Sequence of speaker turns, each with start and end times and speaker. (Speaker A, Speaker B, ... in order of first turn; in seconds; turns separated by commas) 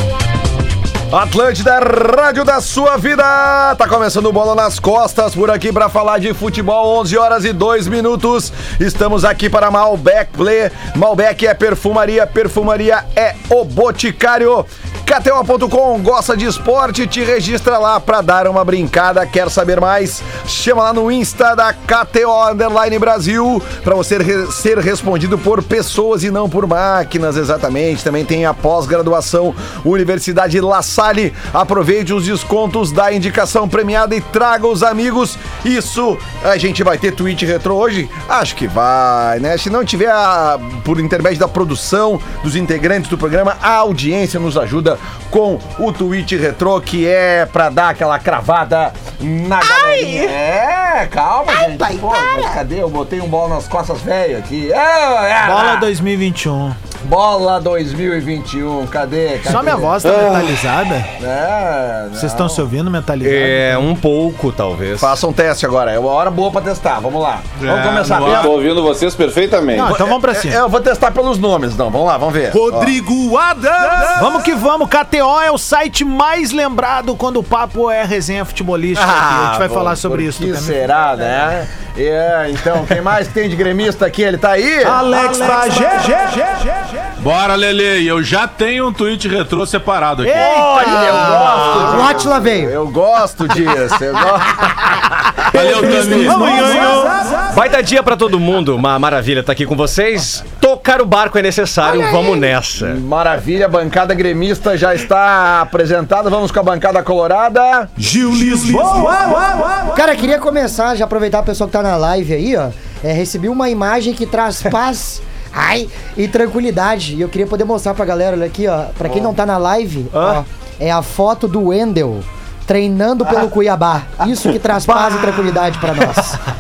Speaker A: 1.1-55.9, Speaker B: 49.8-50.2, Speaker B: 51.6-52.5, Speaker C: 55.4-56.8, Speaker A: 57.0-60.0, Speaker C: 59.4-61.1, Speaker D: 60.0-60.3, Speaker A: 61.2-62.6, Speaker C: 62.1-63.9, Speaker E: 63.2-65.1, Speaker A: 65.0-68.6, Speaker D: 68.2-70.0, Speaker C: 69.7-70.6, Speaker A: 69.8-73.1, Speaker A: 73.6-74.3, Speaker C: 74.1-80.8, Speaker A: 78.9-85.1, Speaker C: 84.8-86.8, Speaker F: 87.2-90.5, Speaker C: 90.2-91.8, Speaker A: 90.4-96.7, Speaker B: 91.7-92.7, Speaker F: 95.5-96.8, Speaker C: 95.6-97.4, Speaker E: 97.5-103.0, Speaker A: 102.8-108.3, Speaker B: 109.9-126.4, Speaker E: 120.1-120.4, Speaker E: 124.9-125.6